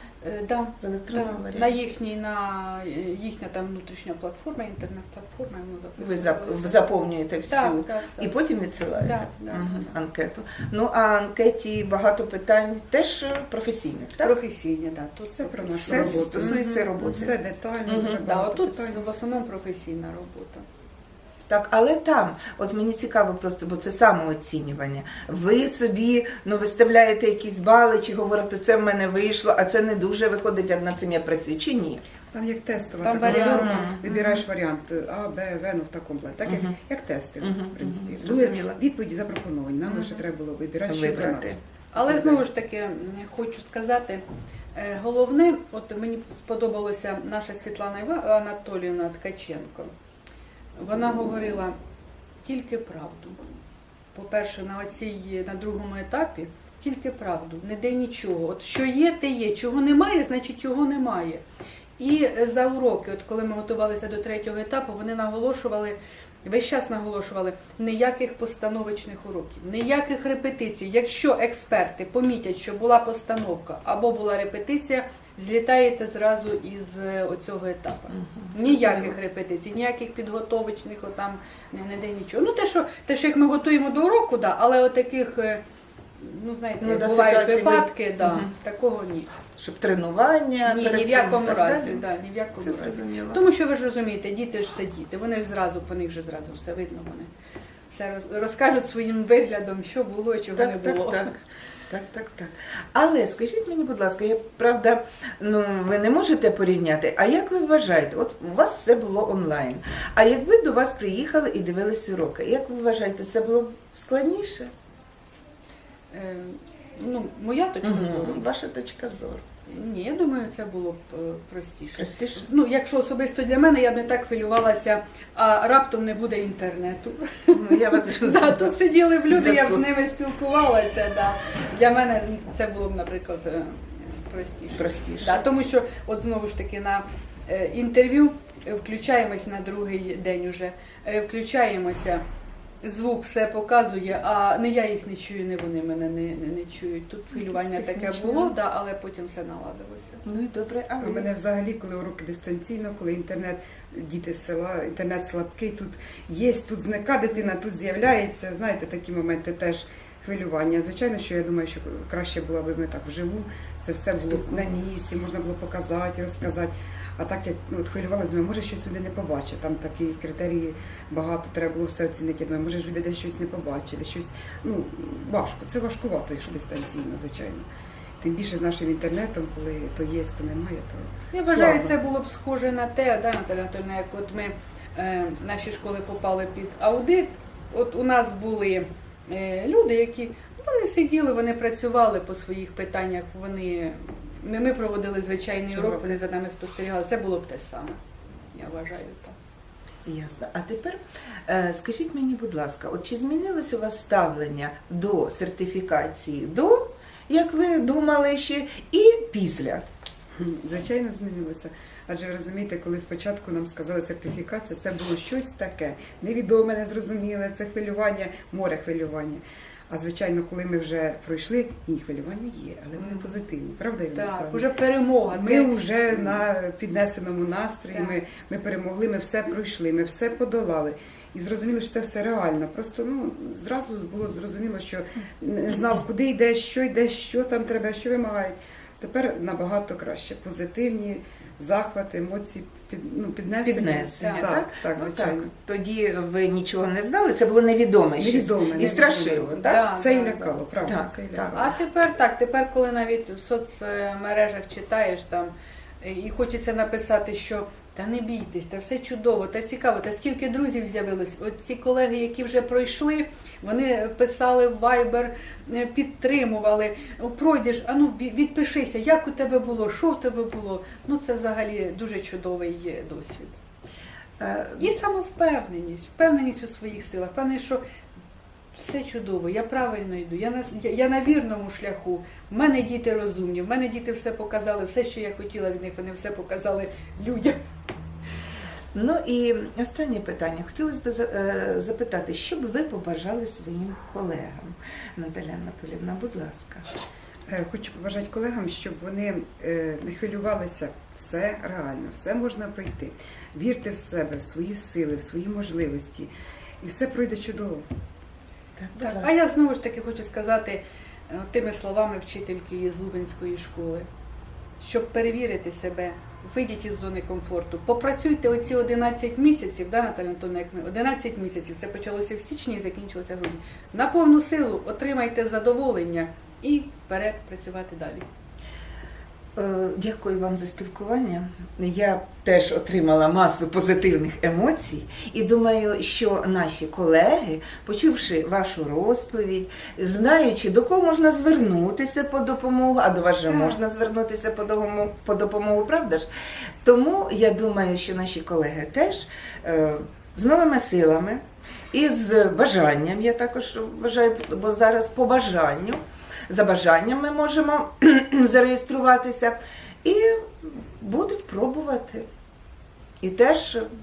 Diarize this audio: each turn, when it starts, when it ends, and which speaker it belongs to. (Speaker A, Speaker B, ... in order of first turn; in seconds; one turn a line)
Speaker A: 0.2-6.9
Speaker B: 0.8-1.8
Speaker B: 6.0-14.3
Speaker A: 7.5-8.3
Speaker A: 9.0-9.9
Speaker A: 14.2-16.9
Speaker C: 15.4-19.0
Speaker B: 15.8-18.2
Speaker A: 18.2-20.6
Speaker B: 21.5-32.0
Speaker C: 32.3-42.4
Speaker A: 33.0-34.4
Speaker B: 33.2-34.0
Speaker B: 36.5-36.7
Speaker B: 37.4-38.8
Speaker A: 39.9-40.2
Speaker B: 40.9-41.6
Speaker A: 41.9-44.2
Speaker A: 44.7-49.9
Speaker A: 50.8-51.8
Speaker A: 52.4-53.4
Speaker A: 54.1-61.4
Speaker A: 62.0-85.6
Speaker B: 78.1-79.1
Speaker A: 86.2-89.3
Speaker B: 86.8-88.5
Speaker B: 89.6-92.0
Speaker A: 90.6-97.3
Speaker B: 92.6-93.4
Speaker A: 97.9-101.3
Speaker B: 100.5-101.4
Speaker B: 101.9-114.7
Speaker A: 116.1-118.5
Speaker B: 117.8-119.4
Speaker A: 119.7-142.2
Speaker B: 122.0-122.5
Speaker B: 127.5-128.7
Speaker B: 129.3-129.8
Speaker B: 134.8-135.4
Speaker A: 142.8-150.2
Speaker B: 147.3-148.5
Speaker B: 150.2-151.3
Speaker C: 151.0-177.7
Speaker B: 164.2-164.8
Speaker C: 178.2-181.9
Speaker A: 181.3-198.0
Speaker B: 195.7-196.2
Speaker A: 198.5-199.3
Speaker B: 200.1-209.8
Speaker C: 210.4-224.7
Speaker A: 223.0-223.3
Speaker A: 224.1-226.4
Speaker C: 225.3-245.5
Speaker A: 227.9-228.2
Speaker B: 243.6-249.8
Speaker A: 244.2-244.4
Speaker C: 248.2-251.7
Speaker A: 249.5-250.6
Speaker B: 250.8-251.6
Speaker A: 251.5-273.6
Speaker B: 274.4-274.9
Speaker A: 274.8-277.8
Speaker A: 278.7-287.6
Speaker B: 288.9-296.9
Speaker C: 297.5-306.3
Speaker C: 306.8-307.8
Speaker B: 308.8-309.4
Speaker A: 308.9-314.1
Speaker A: 314.8-328.2
Speaker B: 329.6-346.3
Speaker A: 343.5-343.8
Speaker B: 346.8-362.2
Speaker B: 363.2-363.9